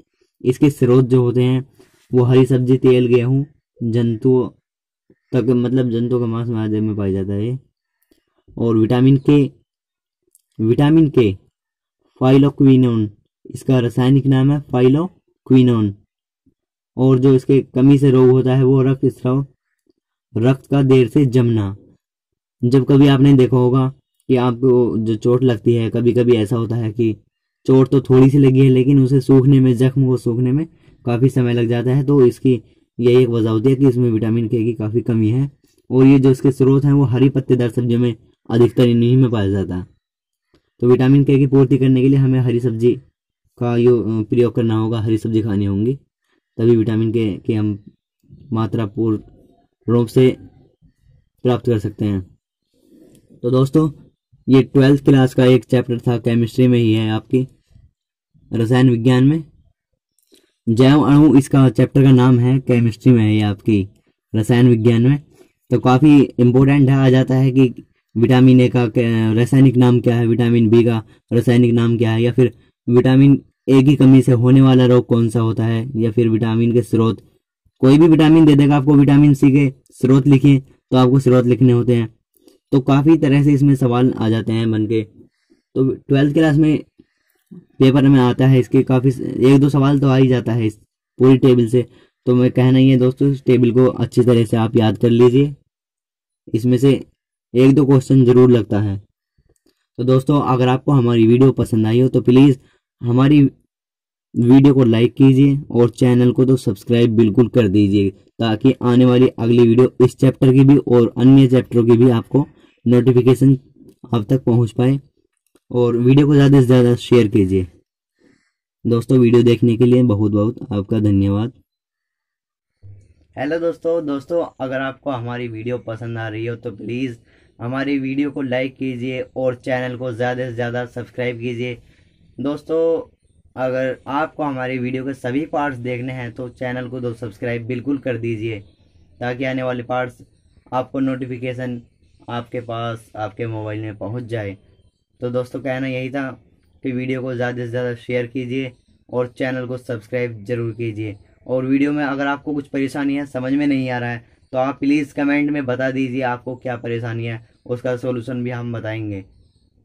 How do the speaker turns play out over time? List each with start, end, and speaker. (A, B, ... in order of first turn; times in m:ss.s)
0:00.4-0:04.5 A
0:05.3-0:07.6 A
0:08.6-0:09.5 A
0:10.6-0:11.4 A
0:12.2-0:16.0 A
0:17.0-0:19.5 A
0:20.4-0:21.8 A
0:22.6-0:39.9 A
0:40.8-0:43.0 A
0:43.6-0:46.0 A
0:46.6-0:47.8 A
0:48.5-0:49.2 A
0:49.9-0:50.4 A
0:51.4-0:52.2 A
0:53.4-0:53.9 A
0:54.5-0:57.5 A
0:58.5-0:59.4 A
1:00.7-1:17.2 A
1:17.8-1:22.1 A
1:22.7-1:25.1 A
1:25.7-1:26.8 A
1:27.8-1:35.5 A
1:36.5-1:37.0 A
1:37.6-1:39.0 A
1:40.0-1:43.5 A
1:44.4-1:53.6 A
1:54.1-1:55.0 A
1:55.7-1:57.7 A
1:58.8-2:01.5 A
2:03.4-2:11.8 A
2:12.4-2:18.6 A
2:19.2-2:24.6 A
2:25.2-2:39.2 A